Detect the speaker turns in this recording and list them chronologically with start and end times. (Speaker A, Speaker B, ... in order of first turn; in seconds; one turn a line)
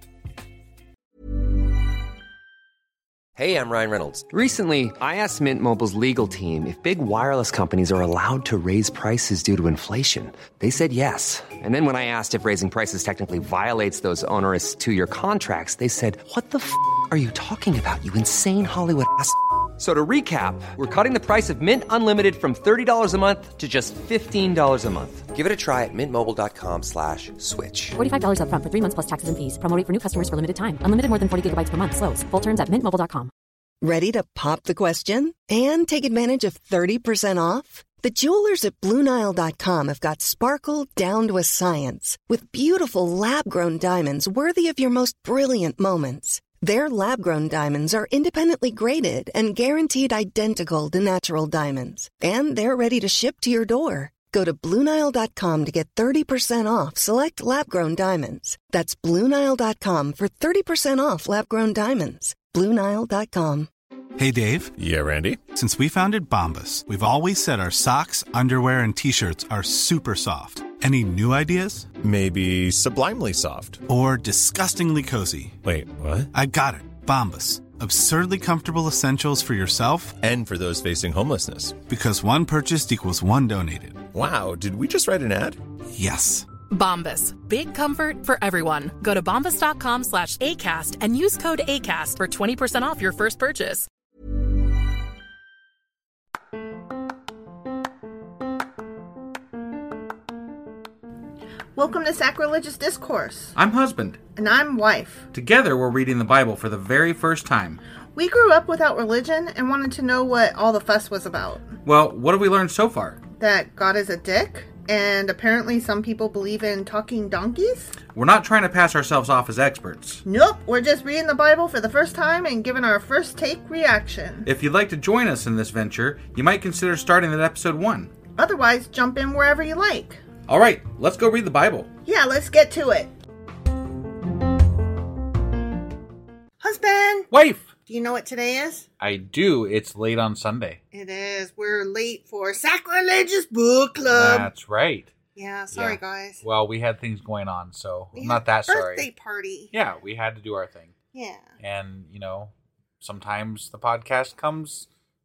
Speaker A: 3.4-28.0
Speaker B: 28.0-33.3
Speaker C: 33.8-63.7
Speaker D: 64.2-64.8
Speaker E: 64.8-65.4
Speaker D: 65.5-71.9
Speaker E: 72.0-73.8
Speaker D: 73.9-75.6
Speaker E: 75.6-76.3
Speaker D: 76.3-80.2
Speaker E: 80.2-81.8
Speaker D: 81.8-84.1
Speaker E: 84.1-85.6
Speaker D: 85.9-86.5
Speaker F: 86.7-93.9
Speaker G: 101.8-103.6
Speaker H: 103.5-104.2
Speaker G: 104.4-105.3
Speaker H: 105.3-107.8
Speaker G: 108.2-111.8
Speaker H: 111.8-113.2
Speaker G: 113.4-118.0
Speaker H: 118.1-120.2
Speaker G: 120.2-124.5
Speaker H: 124.5-128.1
Speaker G: 128.4-130.2
Speaker H: 130.5-131.9
Speaker G: 132.1-133.1
Speaker G: 136.6-137.3
Speaker H: 137.3-137.7
Speaker G: 137.9-138.9
Speaker H: 139.0-140.8
Speaker G: 140.9-144.5
Speaker H: 144.1-145.1
Speaker G: 145.3-146.4
Speaker H: 145.7-149.1
Speaker G: 148.2-149.7
Speaker H: 149.7-150.9
Speaker G: 151.1-151.5
Speaker H: 151.6-154.9